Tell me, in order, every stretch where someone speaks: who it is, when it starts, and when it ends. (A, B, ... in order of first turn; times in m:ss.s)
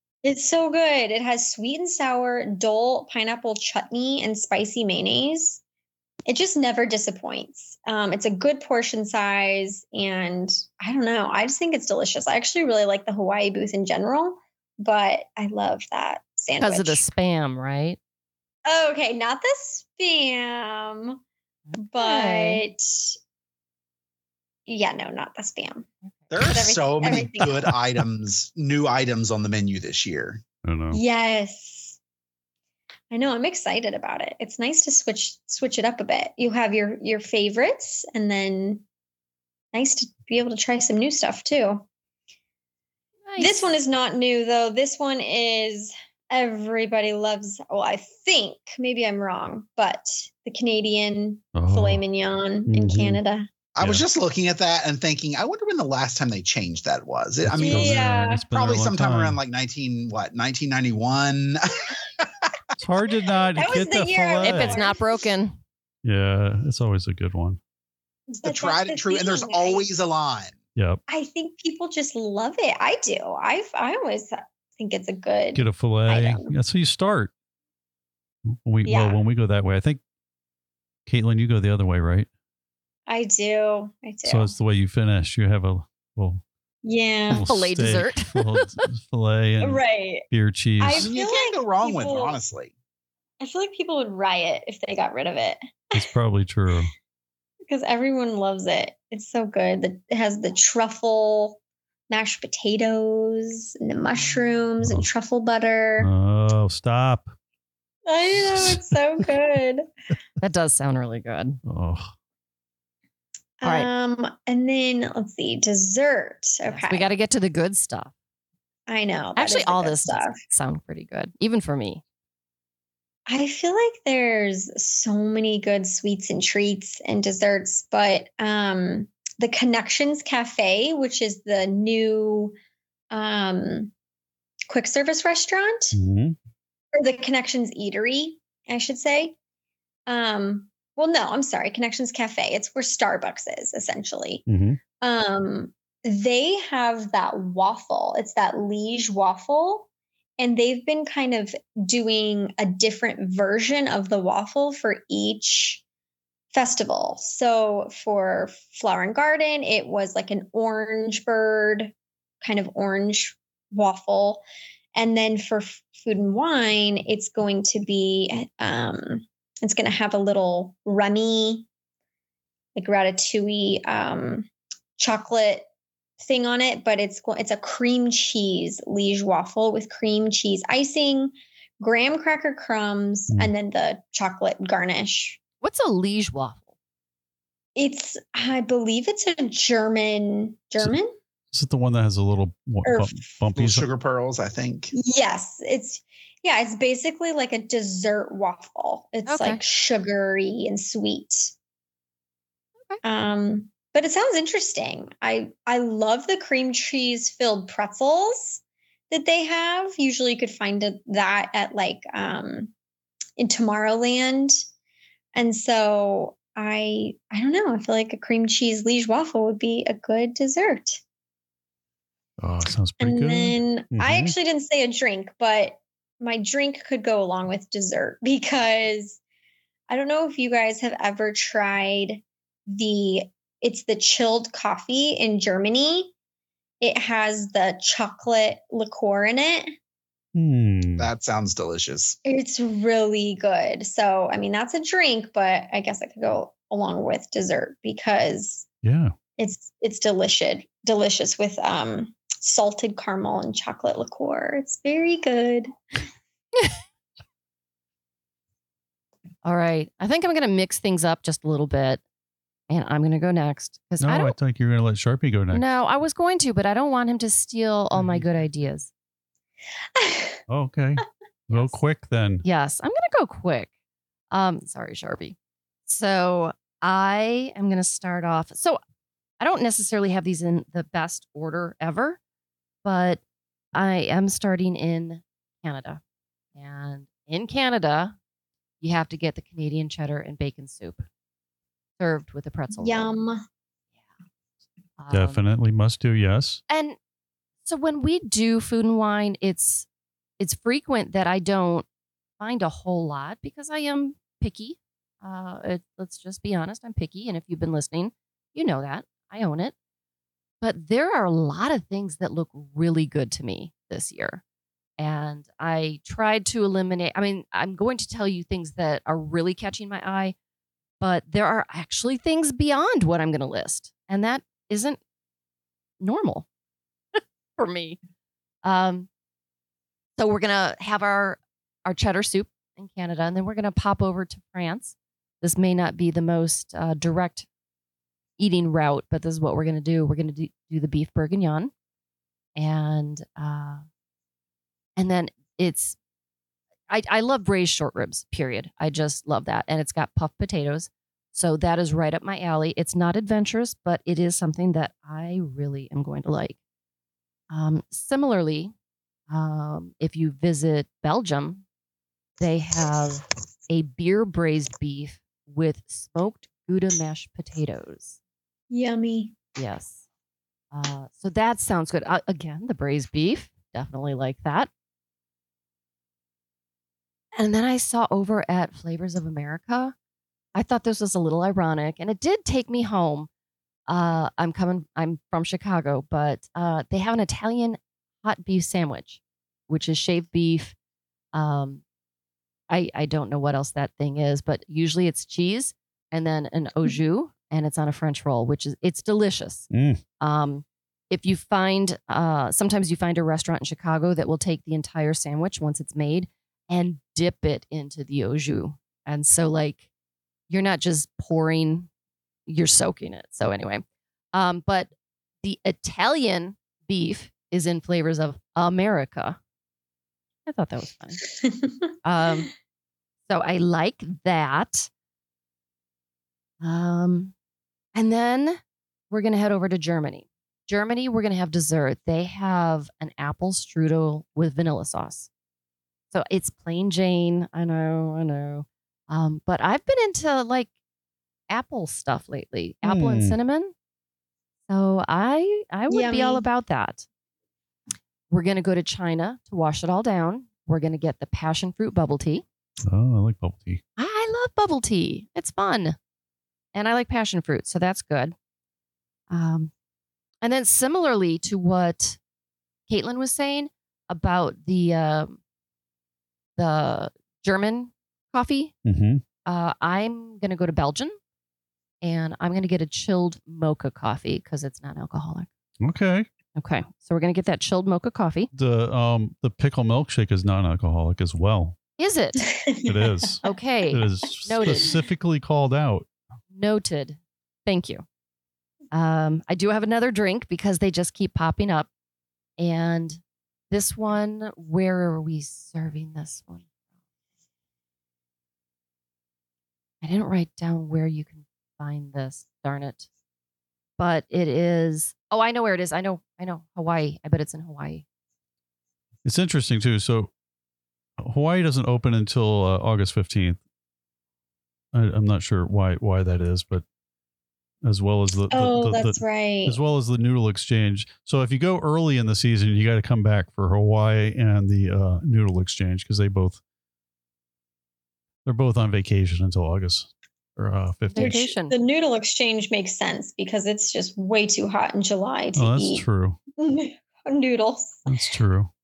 0:00.2-0:05.6 A
0:06.3-0:17.0 A
0:16.6-0:18.0 B
0:18.7-0:21.2 A
0:21.7-0:22.6 B
0:21.8-0:23.2 A
0:24.7-0:27.7 A
0:26.3-0:30.4 C
0:30.6-0:31.0 D
0:30.9-0:32.0 A
0:33.1-0:38.8 A
0:39.7-0:41.8 A
0:43.3-0:43.8 B
0:43.4-0:53.5 A
0:51.6-0:52.0 D
0:52.7-0:53.2 D
0:53.8-1:02.3 C
0:57.4-0:59.4 D
0:57.6-0:58.4 A
1:02.8-1:04.8 D
1:03.6-1:05.2 A
1:04.4-1:05.6 B
1:06.0-1:07.6 D
1:08.3-1:09.9 A
1:08.4-1:10.6 C
1:11.1-1:16.5 A
1:15.6-1:17.3 D
1:18.5-1:20.0 D
1:18.8-1:19.2 A
1:21.1-1:22.3 D
1:23.1-1:24.5 A
1:24.2-1:26.4 D
1:26.8-1:27.5 A
1:27.3-1:31.1 D
1:27.4-1:28.8 B
1:29.6-1:30.2 A
1:30.8-1:32.4 A
1:31.0-1:32.7 C
1:33.4-1:36.0 A
1:36.0-1:36.9 D
1:37.7-1:46.1 A
1:44.8-1:45.1 D
1:46.0-1:47.3 D
1:48.1-1:49.8 A
1:48.3-1:48.8 D
1:50.4-1:51.6 B
1:51.7-1:52.1 D
1:53.6-1:57.1 A
1:53.6-1:53.9 B
1:56.7-1:58.1 B
1:58.9-2:00.4 A
1:59.4-2:02.0 B
2:03.3-2:12.6 A
2:13.1-2:13.9 A
2:14.7-2:16.0 A
2:15.9-2:16.4 D
2:16.9-2:19.4 A
2:20.1-2:24.4 A
2:24.5-2:24.8 D
2:25.0-2:29.9 A
2:30.4-2:35.8 A
2:36.5-2:51.7 A
2:52.8-2:55.7 A
2:56.2-3:05.4 A
3:05.6-3:06.7 B
3:07.8-3:11.1 A
3:11.5-3:13.9 D
3:12.8-3:13.3 A
3:13.5-3:14.9 C
3:14.9-3:21.5 A
3:19.3-3:19.6 B
3:23.0-3:32.7 A
3:33.4-3:34.5 A
3:35.4-3:41.0 A
3:42.4-3:44.3 D
3:43.0-3:49.2 A
3:49.9-3:56.1 A
3:56.8-3:59.7 A
4:00.4-4:01.1 D
4:01.0-4:02.2 C
4:02.2-4:08.7 A
4:08.8-4:09.1 D
4:09.4-4:15.7 A
4:19.4-4:22.0 B
4:22.7-4:24.4 B
4:24.0-4:25.6 D
4:25.5-4:28.9 B
4:28.0-4:28.2 D
4:30.0-4:30.4 A
4:30.5-4:32.4 D
4:31.5-4:31.8 B
4:32.4-4:33.7 B
4:34.3-4:35.4 B
4:35.9-4:38.8 B
4:39.4-4:42.2 B
4:42.8-4:43.2 B
4:43.7-4:46.0 B
4:46.6-4:48.2 B
4:48.8-4:51.1 B
4:52.0-4:53.1 B
4:52.8-4:53.4 A
4:55.0-4:55.4 B
4:55.1-4:56.6 D
4:56.7-4:57.0 B
4:57.6-4:59.9 B
5:00.4-5:01.9 B
5:02.4-5:09.8 B
5:10.6-5:14.4 B
5:15.0-5:20.4 B
5:21.0-5:25.0 B
5:26.0-5:26.5 B
5:27.1-5:28.0 B
5:28.6-5:29.1 B
5:30.2-5:37.5 B
5:38.4-5:41.7 B
5:42.6-5:43.8 B
5:45.0-5:46.0 B
5:46.9-5:56.6 B
5:57.5-5:58.7 B
5:59.3-6:01.6 B
6:02.4-6:08.2 B
6:08.7-6:09.4 A
6:09.6-6:10.0 B
6:10.7-6:14.7 B
6:17.4-6:19.9 B
6:20.6-6:23.3 B
6:23.9-6:30.8 B
6:31.3-6:31.8 B
6:32.7-6:39.7 B
6:39.7-6:40.0 D
6:40.2-6:49.8 B
6:50.5-6:51.9 B
6:52.5-6:59.4 B
7:00.5-7:01.2 B
7:02.0-7:02.5 B
7:03.3-7:04.9 B
7:06.6-7:07.3 B
7:08.0-7:15.3 B
7:16.1-7:20.7 B
7:21.5-7:23.7 B
7:22.8-7:23.4 D
7:24.7-7:27.1 B
7:25.9-7:26.4 A
7:28.3-7:32.4 B
7:32.9-7:33.8 D
7:34.0-7:36.0 B
7:36.7-7:38.4 B
7:39.3-7:39.7 B
7:40.4-7:42.2 B
7:42.9-7:45.4 B
7:46.6-7:48.7 B
7:48.8-7:49.2 D
7:49.5-7:51.2 B
7:52.0-7:55.5 B
7:55.8-7:56.3 D
7:56.6-7:58.5 B
7:58.5-8:01.8 D
8:02.0-8:02.5 B
8:02.4-8:03.6 A
8:02.8-8:06.1 D
8:03.4-8:04.9 B
8:06.5-8:08.0 B
8:08.9-8:11.9 B
8:12.6-8:16.7 B
8:20.0-8:23.1 B
8:24.0-8:28.0 B
8:29.2-8:30.3 D
8:31.2-8:33.6 D
8:34.9-8:36.8 D
8:37.8-8:46.6 D
8:38.5-8:39.8 A
8:48.4-8:51.4 D
8:51.1-8:51.8 B
8:51.2-8:56.0 A
8:55.6-8:56.4 D
8:56.6-8:58.1 A
8:58.1-8:58.7 D